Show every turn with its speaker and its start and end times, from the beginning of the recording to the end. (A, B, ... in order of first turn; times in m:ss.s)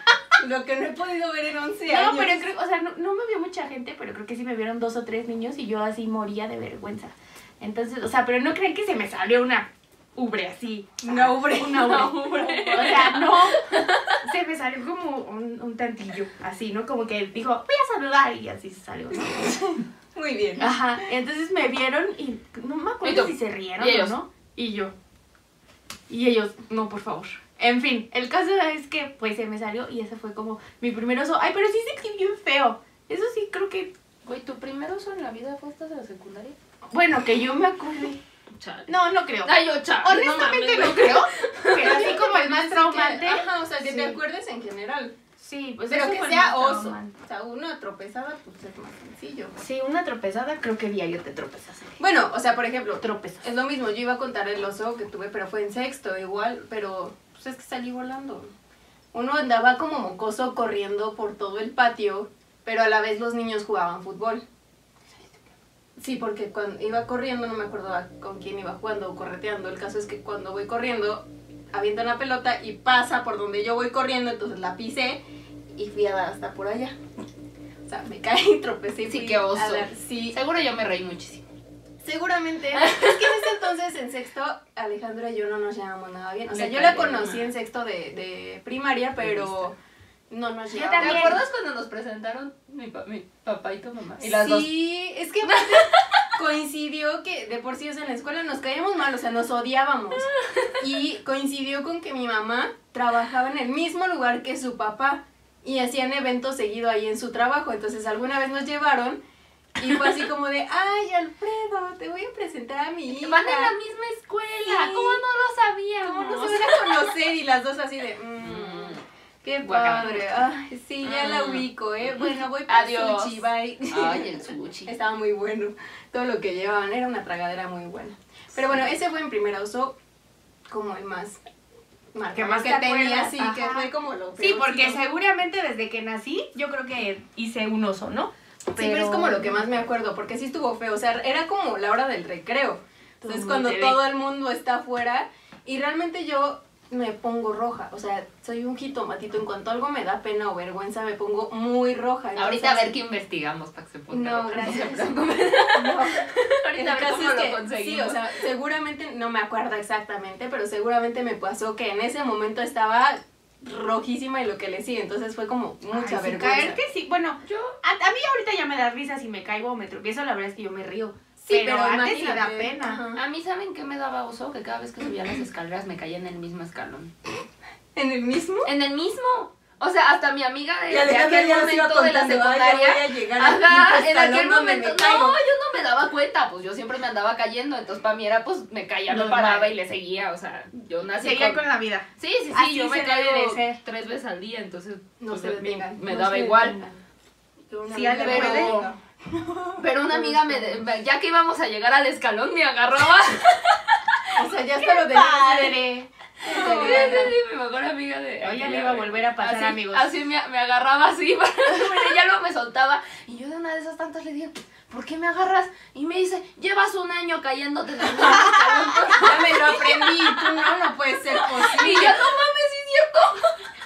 0:00.4-0:02.4 A
0:01.9-0:19.7 B
0:11.0-0:13.2 A
0:11.8-0:14.0 C
0:19.3-0:20.7 A
0:20.6-0:24.9 B
0:23.0-0:24.2 C
0:26.1-0:33.9 B
0:34.2-0:36.6 C
0:36.9-0:38.2 B
0:38.5-0:38.9 C
0:38.9-0:44.2 B
0:39.4-0:42.1 C
0:41.8-0:45.1 A
0:45.4-0:47.1 B
0:45.9-0:49.6 A
0:49.6-0:52.0 B
0:52.0-0:58.5 A
0:53.0-0:53.4 B
0:59.1-1:04.4 A
1:06.0-1:15.2 A
1:15.8-1:17.0 A
1:17.8-1:20.4 A
1:19.1-1:21.4 C
1:22.0-1:29.8 A
1:22.7-1:23.5 C
1:26.5-1:27.5 C
1:29.2-1:29.7 C
1:30.3-1:31.4 A
1:30.7-1:31.4 B
1:31.0-1:34.7 C
1:34.2-1:49.2 A
1:35.5-1:36.3 C
1:40.4-1:40.7 C
1:49.8-1:53.8 A
1:53.1-1:57.1 C
1:54.7-1:55.2 A
1:56.0-2:10.0 A
1:58.4-1:59.0 C
1:59.6-2:00.5 C
2:01.0-2:04.9 C
2:10.7-2:11.4 A
2:12.1-2:15.0 A
2:12.3-2:19.6 B
2:18.7-2:32.9 A
2:23.2-2:24.0 B
2:32.4-2:38.3 C
2:34.1-2:46.8 A
2:34.6-2:35.0 B
2:45.9-2:53.0 B
2:47.4-2:47.8 C
2:51.4-2:53.2 A
2:53.2-2:57.1 C
2:58.0-2:58.7 A
2:58.6-3:11.6 C
3:00.9-3:05.4 A
3:09.1-3:09.7 B
3:11.2-3:13.8 B
3:12.2-3:16.8 C
3:15.2-3:16.0 A
3:16.0-3:17.0 B
3:17.7-3:20.8 A
3:17.9-3:18.9 B
3:18.2-3:18.9 C
3:19.8-3:24.3 C
3:24.4-3:25.8 A
3:24.8-3:27.2 B
3:26.4-3:27.4 A
3:26.4-3:40.8 C
3:28.4-3:30.1 B
3:39.1-3:42.2 A
3:41.4-3:43.7 C